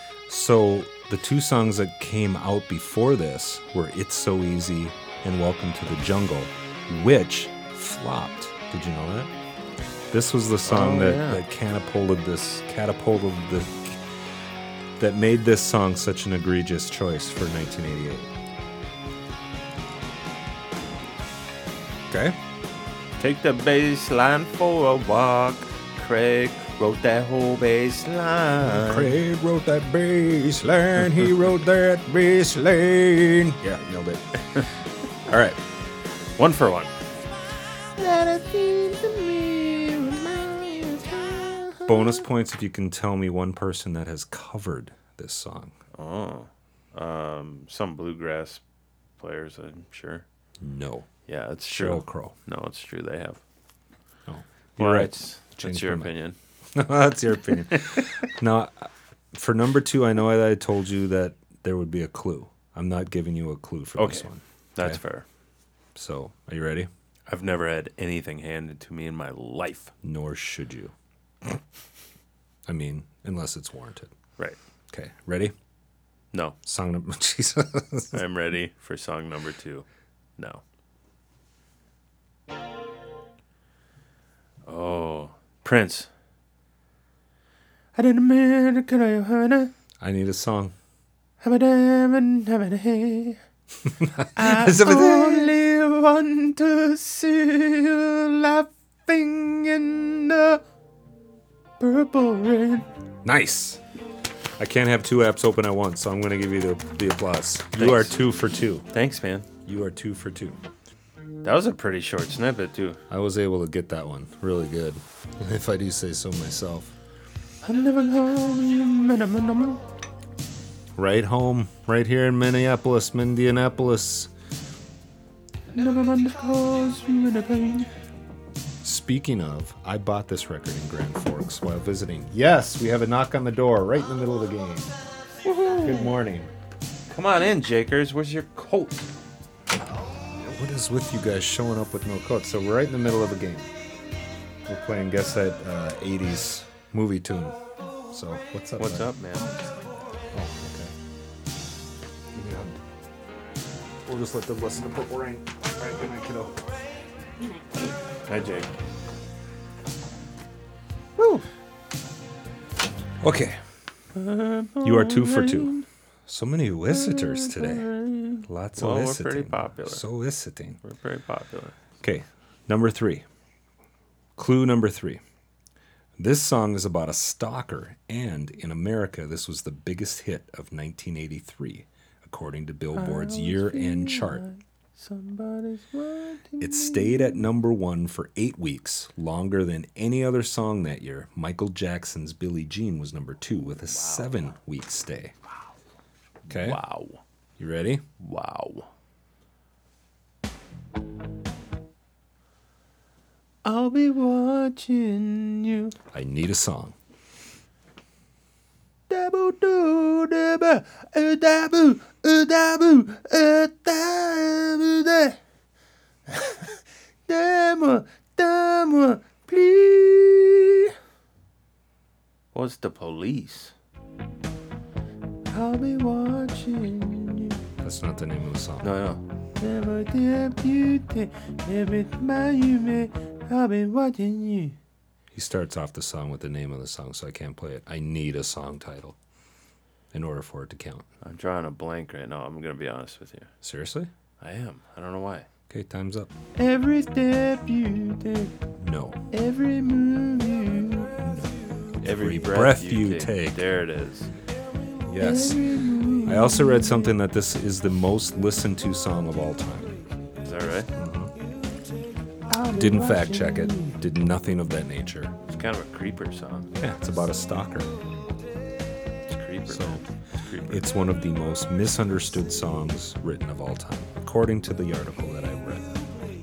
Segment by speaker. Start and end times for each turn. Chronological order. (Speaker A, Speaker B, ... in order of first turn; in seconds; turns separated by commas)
Speaker A: 0.3-9.3, Speaker A: 10.1-14.1, Speaker B: 10.7-11.4, Speaker A: 15.0-18.3, Speaker A: 22.1-22.4, Speaker B: 23.2-29.1, Speaker A: 28.7-34.7, Speaker A: 35.2-35.6, Speaker B: 36.4-36.9, Speaker B: 38.0-42.2, Speaker A: 41.9-45.8, Speaker B: 45.9-48.6, Speaker B: 49.2-50.2, Speaker A: 50.6-51.1, Speaker B: 51.2-53.4, Speaker A: 51.6-52.4, Speaker A: 54.3-56.1, Speaker B: 54.8-56.4, Speaker A: 56.7-65.0, Speaker B: 64.0-65.2, Speaker A: 65.9-66.9, Speaker B: 67.3-69.9, Speaker A: 70.0-70.9, Speaker A: 72.7-74.1, Speaker A: 74.9-75.5, Speaker B: 76.3-76.6, Speaker A: 76.6-78.2, Speaker B: 78.1-79.9, Speaker B: 80.4-80.6, Speaker B: 84.7-86.1, Speaker B: 87.9-89.7, Speaker A: 90.0-90.7, Speaker B: 91.4-93.4, Speaker A: 94.0-95.5, Speaker B: 94.3-100.6, Speaker B: 101.8-102.9, Speaker A: 103.2-103.8, Speaker A: 104.6-108.9, Speaker B: 107.8-108.2, Speaker B: 108.9-109.5, Speaker A: 109.6-110.6, Speaker B: 111.4-113.0, Speaker A: 113.1-116.9, Speaker B: 117.6-119.8, Speaker A: 121.0-124.3, Speaker B: 125.7-127.9, Speaker A: 128.8-134.9, Speaker B: 135.4-136.1, Speaker A: 135.8-136.5, Speaker B: 137.1-139.1, Speaker A: 140.4-143.7, Speaker A: 144.7-147.6, Speaker A: 148.1-149.1, Speaker B: 148.8-149.5, Speaker A: 150.3-150.9, Speaker A: 152.3-152.8, Speaker A: 154.0-156.6, Speaker B: 158.2-158.7, Speaker B: 161.2-161.5, Speaker A: 163.2-163.6, Speaker B: 164.1-165.8, Speaker A: 164.8-165.7, Speaker A: 166.3-167.9, Speaker B: 166.9-170.0, Speaker A: 168.4-170.8, Speaker B: 170.8-171.8, Speaker A: 172.0-173.2, Speaker A: 174.4-175.2, Speaker A: 176.2-184.4, Speaker B: 182.9-187.4, Speaker A: 186.6-195.3, Speaker B: 193.8-194.4, Speaker B: 196.5-197.2, Speaker A: 196.5-196.8, Speaker A: 197.6-198.0, Speaker B: 198.2-198.9, Speaker B: 203.6-205.9, Speaker A: 206.1-206.9, Speaker B: 209.1-215.4, Speaker B: 216.3-220.9, Speaker B: 222.5-223.7, Speaker B: 225.5-227.6, Speaker A: 227.8-228.9, Speaker B: 228.8-234.8, Speaker A: 235.3-239.2, Speaker A: 240.1-241.0, Speaker B: 241.2-243.5, Speaker A: 243.6-244.1, Speaker B: 244.4-245.5, Speaker A: 245.7-246.3, Speaker B: 246.6-248.5, Speaker A: 248.8-249.2, Speaker B: 249.3-251.1, Speaker A: 251.2-253.6, Speaker B: 252.0-254.3, Speaker A: 255.1-255.6, Speaker B: 255.2-257.1, Speaker A: 256.2-259.9, Speaker B: 260.4-260.9, Speaker A: 260.9-261.3, Speaker B: 262.5-264.0, Speaker A: 262.7-265.4, Speaker B: 265.5-266.7, Speaker A: 266.8-267.9, Speaker B: 269.3-270.9, Speaker A: 269.7-270.0, Speaker A: 270.7-276.0